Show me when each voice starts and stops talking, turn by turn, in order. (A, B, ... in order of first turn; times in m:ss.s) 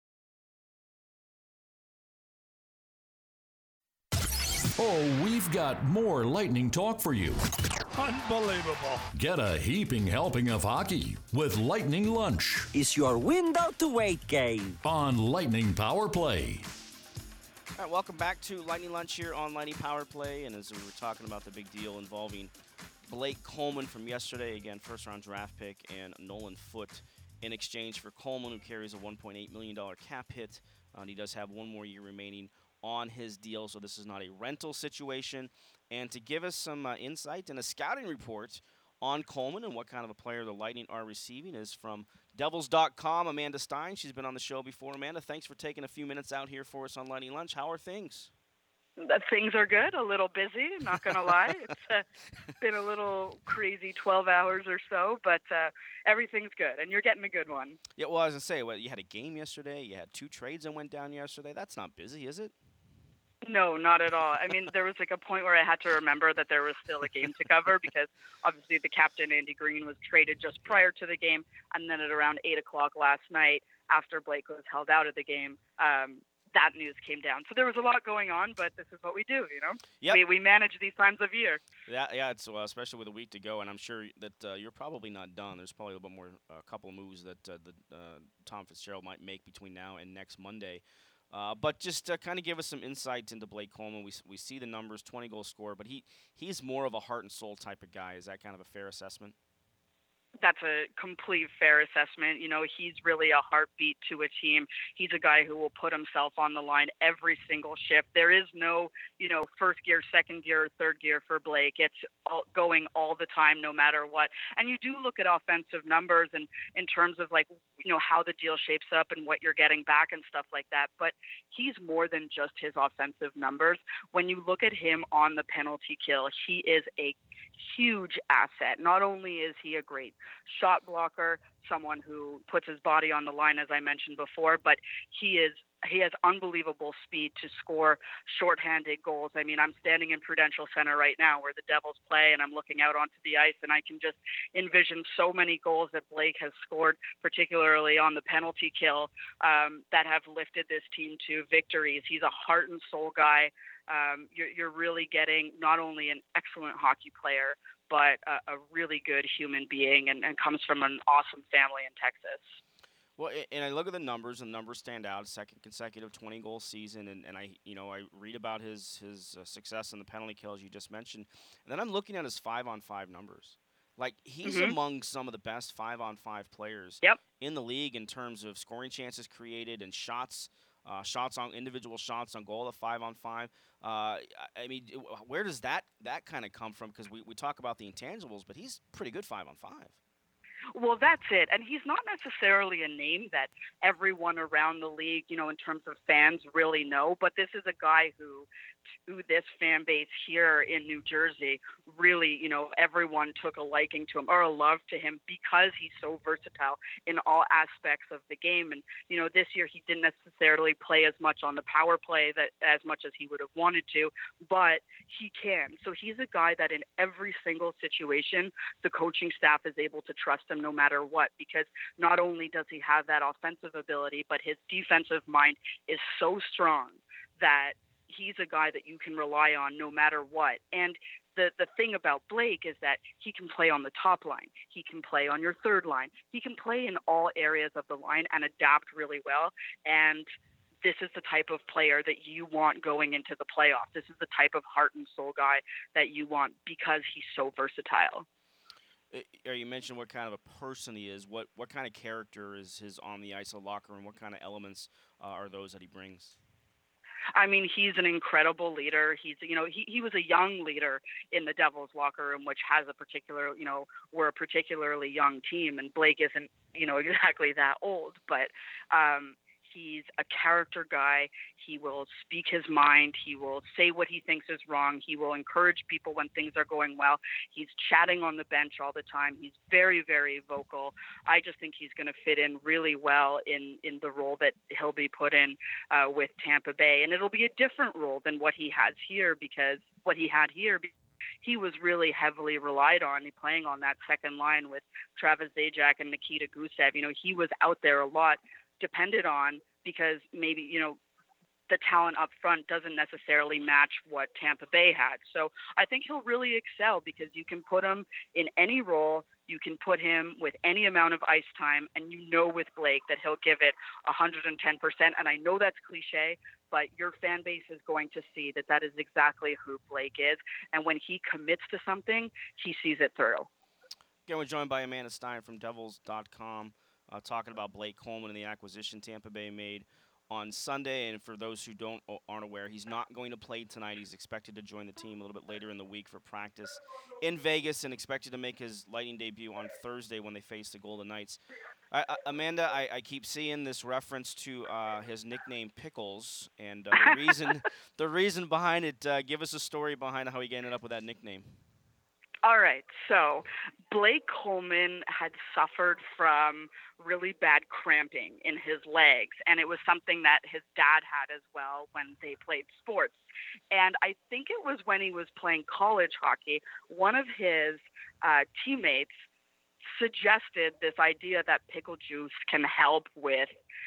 0:04.8-0:07.4 A
0:08.0-0:12.7 A
0:12.7-0:14.8 B
0:14.8-0:16.7 A
0:17.8-0:22.5 C
0:23.0-0:48.3 C
0:49.0-0:52.0 D
0:52.6-0:57.8 D
0:58.0-1:02.5 C
1:03.4-1:21.6 D
1:21.9-1:39.3 C
1:40.4-2:42.6 D
2:43.2-3:10.0 C
2:54.4-2:54.7 D
3:10.7-3:18.5 D
3:19.1-4:00.3 D
4:00.8-4:08.2 D
4:09.1-4:16.4 C
4:17.3-4:50.9 D
4:51.4-5:01.0 D
5:01.7-5:23.5 D
5:24.3-5:51.6 C
5:52.4-6:03.2 D
6:03.7-6:09.1 D
6:09.9-6:13.5 D